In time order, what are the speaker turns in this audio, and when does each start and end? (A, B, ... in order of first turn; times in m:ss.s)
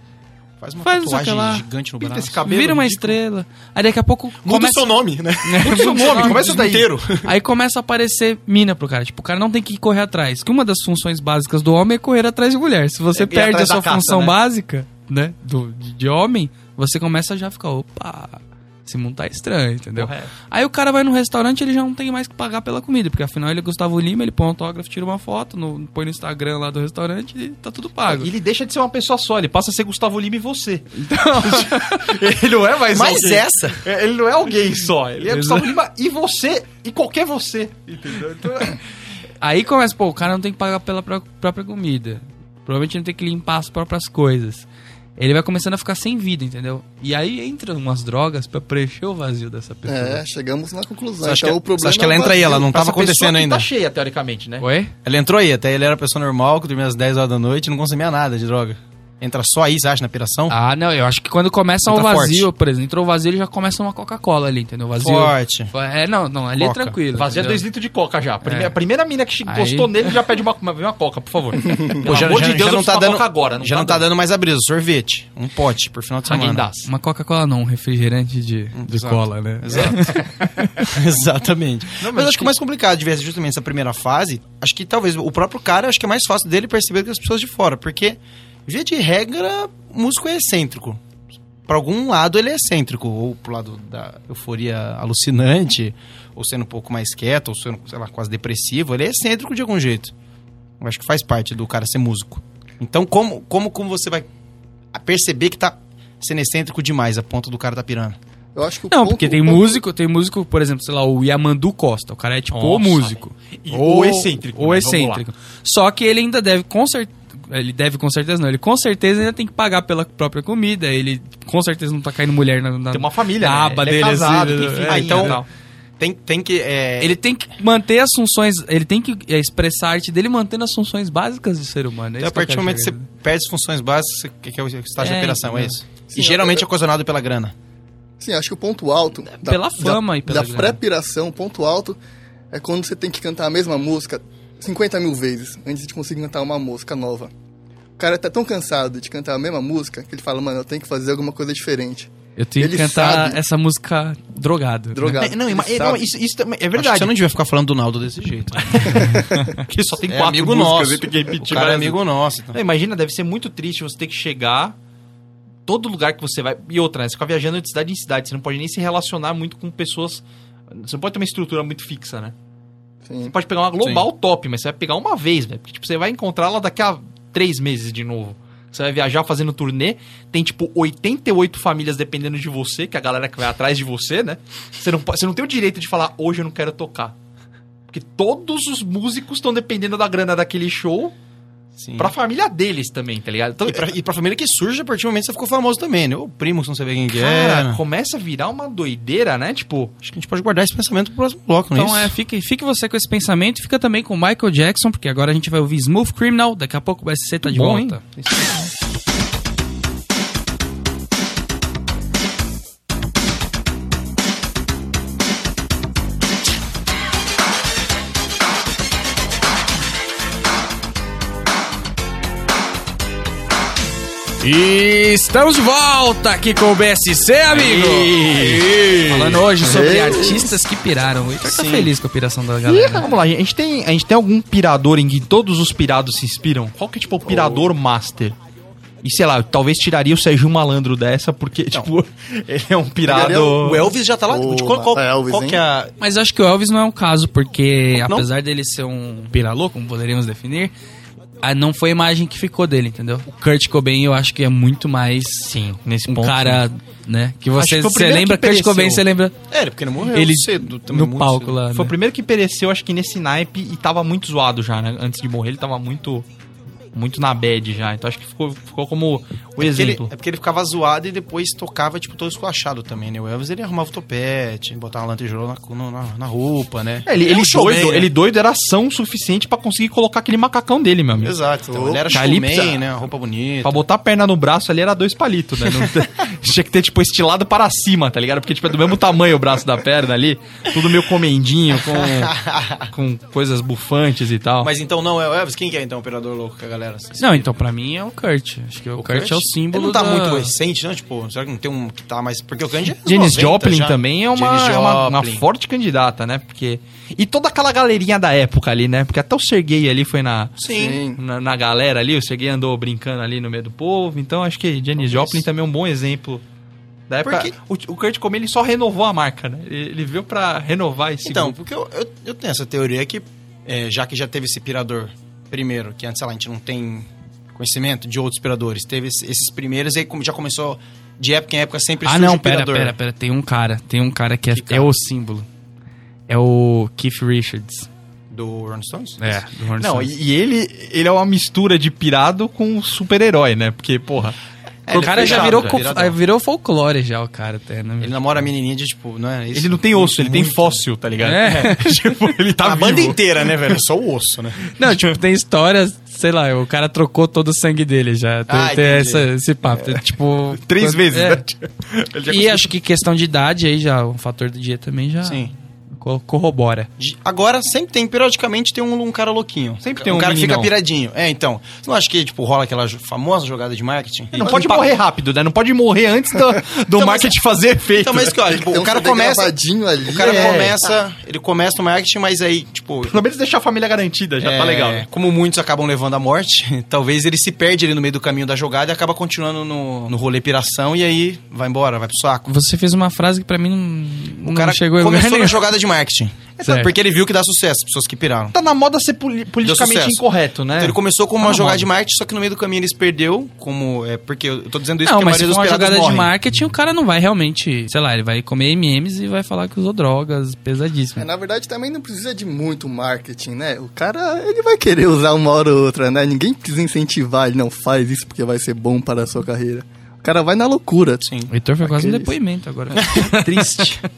0:00.6-0:02.5 A
0:00.8-0:01.6 B
0:02.0-0:03.2 C
0:02.4-0:06.5 B
0:04.4-0:07.3 A
0:05.6-0:06.9 C
0:07.2-0:28.3 B
0:13.2-0:14.4 C
0:20.0-0:20.3 C
0:28.1-0:38.8 C
0:31.0-0:32.2 B
0:32.9-0:33.8 A
0:35.3-0:35.7 B
0:39.4-0:50.2 B
0:49.9-0:52.6 D
0:51.2-0:53.7 A
0:52.3-0:54.7 C
0:54.6-0:54.9 B
0:55.0-1:00.6 A
1:00.5-1:07.6 B
1:01.9-1:02.5 A
1:05.0-1:05.7 A
1:06.6-1:07.0 A
1:07.2-1:14.1 C
1:08.4-1:08.7 B
1:09.5-1:10.1 B
1:11.7-1:12.0 D
1:12.0-1:16.7 A
1:16.2-1:16.9 C
1:16.8-1:20.8 B
1:18.8-1:31.0 A
1:22.0-1:22.5 C
1:31.7-1:40.1 A
1:40.8-1:44.3 A
1:44.9-1:48.2 A
1:48.6-1:49.8 D
1:48.9-2:05.4 B
1:52.5-1:55.2 C
2:02.9-2:05.5 C
2:04.9-2:05.4 A
2:06.0-2:07.2 A
2:07.0-2:13.1 B
2:12.2-2:17.5 A
2:15.0-2:15.8 B
2:16.1-2:16.6 D
2:18.2-2:22.0 D
2:19.4-2:20.8 B
2:22.5-2:27.3 D
2:28.0-2:33.4 D
2:32.4-2:35.2 B
2:35.0-2:35.6 D
2:35.1-2:37.1 C
2:35.5-2:36.0 A
2:36.8-2:39.2 A
2:38.7-2:42.0 C
2:40.1-2:42.6 A
2:42.5-2:44.8 C
2:45.7-2:52.3 C
2:53.0-2:53.4 D
2:53.3-3:07.2 C
2:53.8-2:54.1 A
3:07.9-3:11.1 C
3:11.8-3:12.1 A
3:12.0-3:13.9 C
3:13.6-3:17.8 A
3:17.1-3:19.9 C
3:20.0-3:22.1 A
3:21.7-3:28.0 B
3:27.4-3:28.7 C
3:44.4-3:53.1 B
3:47.5-3:49.4 C
3:49.6-3:50.5 D
3:51.4-3:51.9 A
3:52.7-3:58.4 C
3:59.0-4:03.9 C
4:03.1-4:05.6 D
4:03.1-4:05.9 A
4:06.0-4:10.7 B
4:08.0-4:08.3 A
4:11.4-4:19.4 B
4:15.5-4:16.6 C
4:17.6-4:19.0 C
4:19.5-4:21.6 A
4:20.1-4:21.9 B
4:21.7-4:26.3 C
4:26.9-4:30.1 C
4:29.6-4:38.1 A
4:37.0-4:41.4 C
4:41.2-4:43.8 A
4:41.7-4:42.1 D
4:42.1-4:42.9 C
4:43.6-4:52.4 C
4:51.8-4:52.9 A
4:52.9-4:54.7 C
4:54.6-4:57.5 A
4:57.2-5:00.5 B
4:59.0-5:05.4 A
5:03.0-5:16.4 C
5:10.6-5:11.0 A
5:10.7-5:11.2 D
5:15.0-5:15.4 A
5:17.1-5:21.6 C
5:17.3-5:17.5 A
5:21.2-5:33.0 A
5:32.0-5:35.5 B
5:34.5-5:34.9 A
5:36.3-5:37.9 B
5:38.3-5:39.4 A
5:39.2-5:40.1 B
5:39.8-5:44.4 C
5:44.9-5:46.2 A
5:44.9-5:45.8 C
5:45.0-5:48.4 B
5:48.0-5:50.8 A
5:49.5-5:53.8 C
5:51.2-5:52.1 B
5:52.6-5:54.7 A
5:54.8-6:01.4 B
5:54.8-5:55.1 C
5:58.5-5:59.3 A
5:59.7-6:00.0 C
6:00.6-6:02.7 C
6:02.3-6:06.9 B
6:05.2-6:05.5 A
6:07.0-6:14.9 A
6:09.8-6:10.7 C
6:14.4-6:18.6 C
6:16.9-6:17.3 A
6:18.0-6:23.2 A
6:18.5-6:20.7 D
6:20.2-6:20.8 C
6:23.0-6:25.1 C
6:24.4-6:32.5 A
6:32.5-6:35.6 B
6:34.4-6:38.6 A
6:36.6-6:36.9 B
6:38.5-6:41.9 C
6:39.6-6:40.2 A
6:40.8-6:46.3 A
6:45.0-6:51.3 B
6:51.2-7:01.2 D
7:01.2-7:01.5 A
7:01.5-7:04.0 B
7:01.8-7:02.4 D
7:03.0-7:03.4 A
7:03.2-7:03.9 C